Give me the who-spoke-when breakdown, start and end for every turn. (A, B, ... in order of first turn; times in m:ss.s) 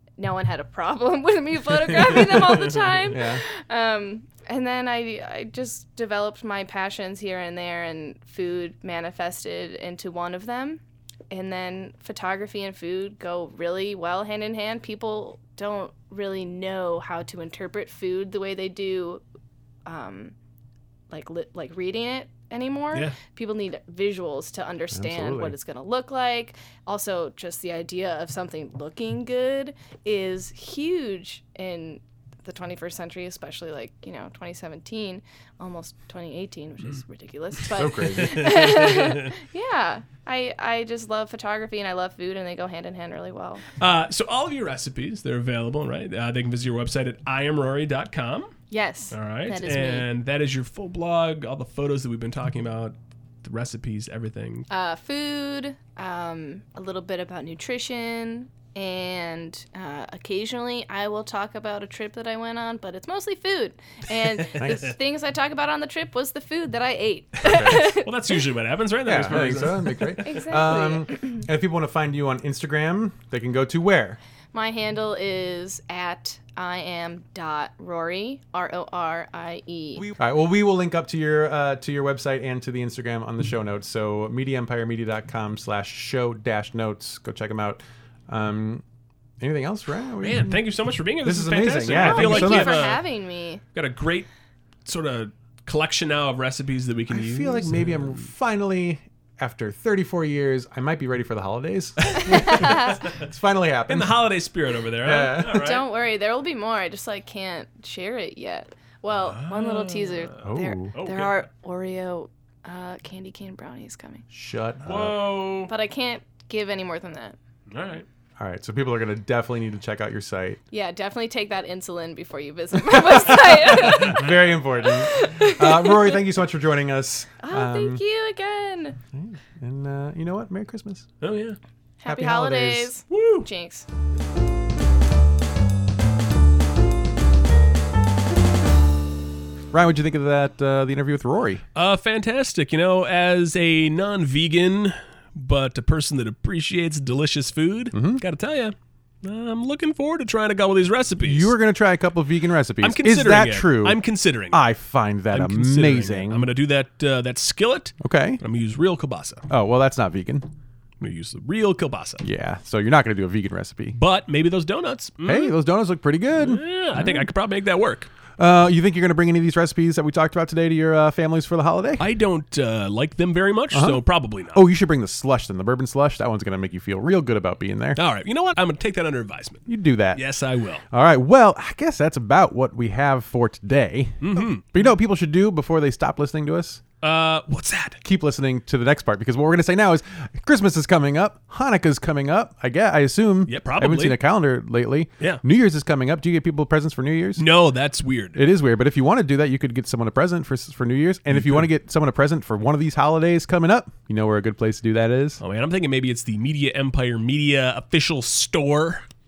0:00.2-0:19.2 A
0:03.1-0:03.4 B
0:19.9-0:20.3 A
0:21.1-0:43.6 A
0:24.9-0:25.6 B
0:37.7-0:38.5 B
0:38.2-0:39.3 C
0:43.8-0:48.5 C
0:48.7-0:50.1 A
0:49.1-0:54.7 C
0:54.7-1:08.1 A
1:04.5-1:04.9 B
1:07.4-1:07.9 B
1:07.5-1:10.2 C
1:09.0-1:14.2 B
1:10.2-1:11.4 A
1:14.5-1:20.1 A
1:20.1-1:28.8 B
1:29.4-1:30.6 B
1:30.2-1:33.0 C
1:31.2-1:32.9 B
1:31.9-1:33.6 A
1:33.7-1:34.3 C
1:34.8-1:38.2 C
1:37.1-1:44.3 B
1:42.2-1:42.7 C
1:42.3-1:43.0 A
1:43.9-1:45.9 C
1:45.0-1:45.7 B
1:45.5-1:54.2 A
1:49.2-1:51.4 C
1:50.4-1:51.0 B
1:54.3-1:55.2 B
1:54.8-1:55.7 C
1:55.7-1:57.4 A
1:57.7-1:58.1 C
1:58.4-2:00.6 B
2:00.7-2:06.2 A
2:03.1-2:08.0 B
2:07.4-2:09.0 A
2:09.1-2:11.1 B
2:11.2-2:11.6 C
2:12.0-2:13.9 A
2:12.1-2:12.9 B
2:13.1-2:13.5 C
2:19.7-2:21.6 B
2:21.8-2:31.6 C
2:27.9-2:28.2 B
2:31.2-2:36.5 B
2:32.8-2:34.6 C
2:35.3-2:39.4 C
2:38.0-2:38.4 B
2:39.5-2:40.5 B
2:41.0-2:42.2 C
2:42.2-2:44.0 B
2:43.9-2:45.6 C
2:45.2-2:47.3 B
2:46.4-2:48.1 C
2:48.4-2:52.1 B
2:52.0-2:54.6 C
2:53.7-2:58.0 B
2:58.0-3:00.8 C
2:59.7-3:00.2 B
3:00.9-3:06.8 B
3:04.2-3:04.7 C
3:07.0-3:08.0 C
3:08.0-3:17.4 B
3:13.5-3:14.2 C
3:17.4-3:18.4 C
3:18.4-3:25.4 B
3:21.3-3:21.7 C
3:25.4-3:29.1 C